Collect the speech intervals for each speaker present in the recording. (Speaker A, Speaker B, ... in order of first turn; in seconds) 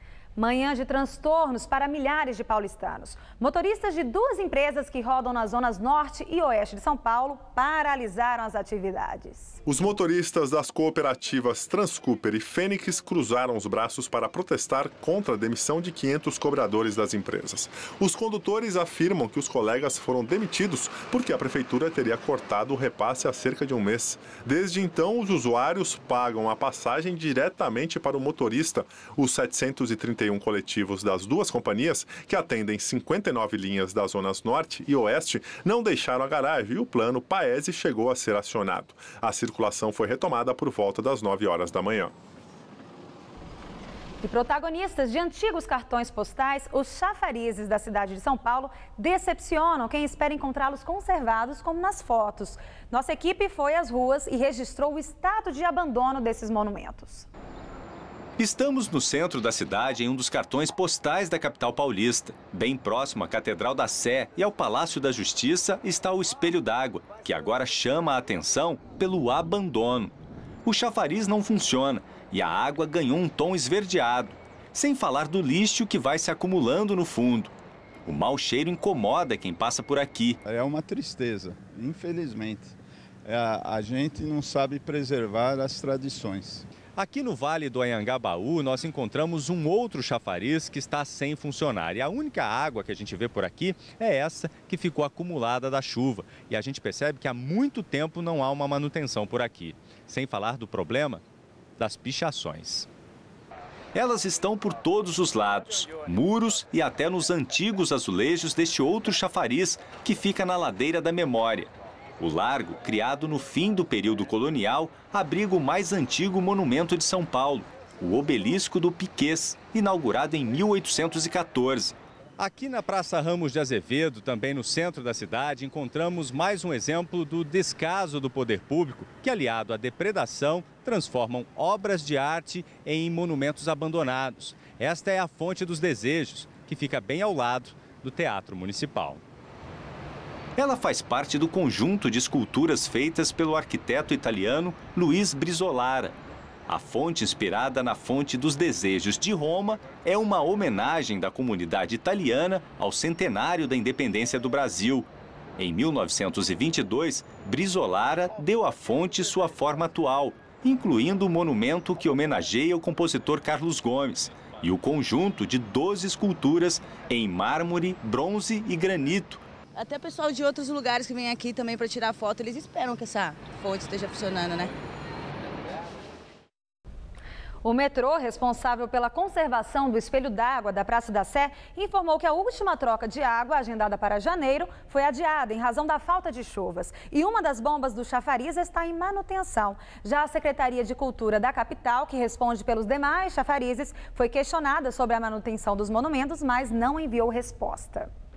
Speaker A: 0.3-9.6, 44.2-57.3, 177.6-198.1
Speaker B: 9.7-42.1
Speaker C: 58.4-70.1, 70.6-77.5, 78.0-80.4, 86.9-101.2, 101.8-102.9, 103.9-139.2, 140.6-146.2, 146.7-169.4
Speaker D: 80.4-86.7
Speaker E: 169.8-174.7